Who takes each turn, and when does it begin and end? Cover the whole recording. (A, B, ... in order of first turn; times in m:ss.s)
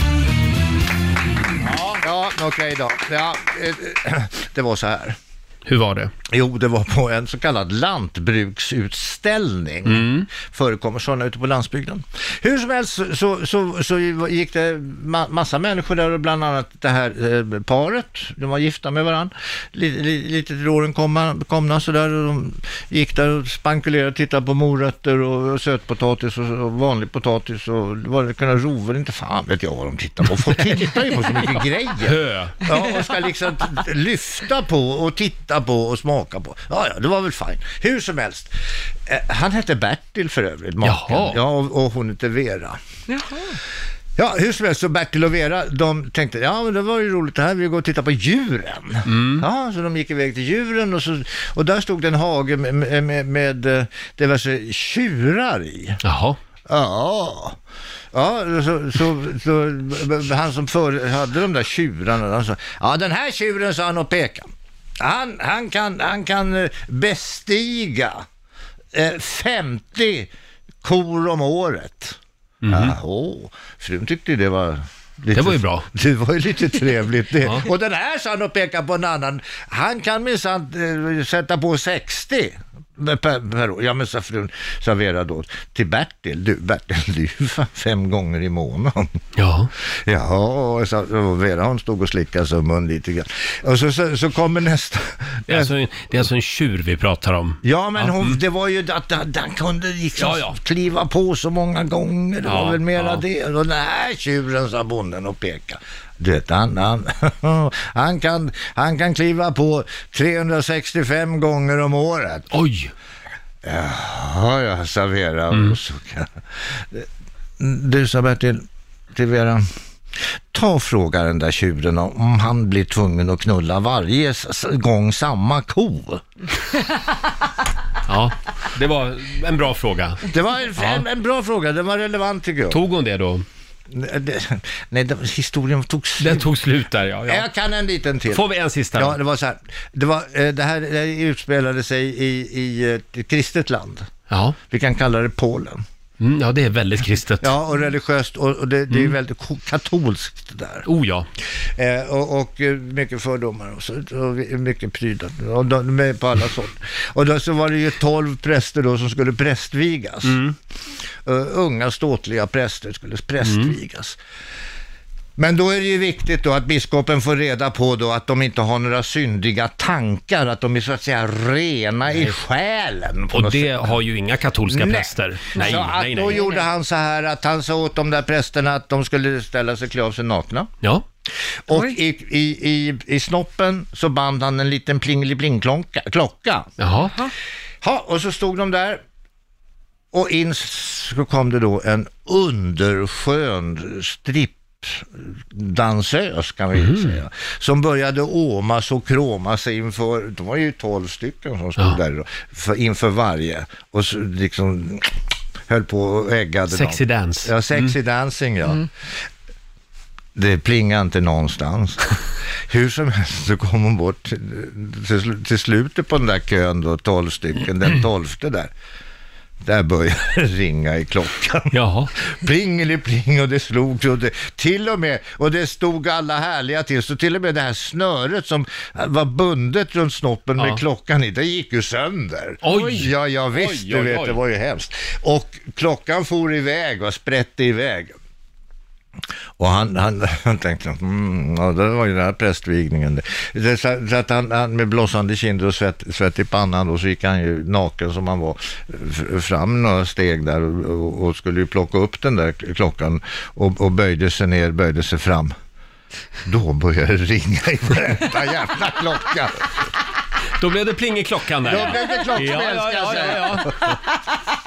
0:01.6-0:02.0 A
0:01.8-0:05.2 B
0:05.7-0:06.1 A
0:06.3-0:38.5 B
0:09.8-0:10.3 A
0:32.0-0:32.6 A
0:39.1-0:42.8 B
0:40.8-0:41.4 A
0:44.2-0:56.0 B
0:49.1-0:49.4 A
0:56.0-0:56.4 A
0:56.7-0:57.6 B
0:58.1-1:04.5 B
1:05.0-1:08.2 B
1:08.9-1:10.3 B
1:10.8-1:29.1 B
1:12.6-1:13.0 A
1:15.3-1:15.9 A
1:29.4-1:29.7 A
1:29.8-1:35.7 B
1:35.5-1:38.4 A
1:37.6-1:52.6 B
1:40.2-1:40.6 A
1:42.4-1:43.2 A
1:52.5-1:52.9 A
1:53.6-1:57.1 B
1:55.5-1:55.8 A
1:57.6-1:59.6 B
2:00.5-2:06.2 B
2:08.1-2:10.2 A
2:10.3-2:12.8 B
2:10.8-2:11.0 A
2:12.7-2:13.4 A
2:13.9-2:16.5 B
2:16.2-2:17.5 A
2:17.3-2:18.4 B
2:18.3-2:19.2 A
2:19.0-2:24.1 B
2:24.3-2:24.6 A
2:24.7-2:25.8 B
2:26.2-2:27.5 A
2:27.4-2:30.9 B
2:30.9-2:31.3 A
2:31.8-2:40.4 B
2:40.2-2:40.6 A
2:41.2-2:44.2 B
2:43.4-2:43.8 A
2:45.4-2:54.0 B
2:52.1-2:52.4 A
2:53.3-2:56.5 A
2:54.7-3:00.7 B
3:01.7-3:06.7 B
3:06.8-3:07.3 A
3:07.8-3:09.0 B
3:10.1-3:25.1 B
3:16.7-3:17.1 A
3:25.7-3:28.9 B
3:26.7-3:27.9 A
3:30.4-3:38.7 B
3:39.6-3:58.1 B
3:41.7-3:42.1 A
3:50.6-3:50.8 A
3:52.6-3:54.4 A
3:59.6-4:15.5 B
4:16.4-4:19.6 B
4:20.5-4:24.0 A
4:21.7-4:24.0 B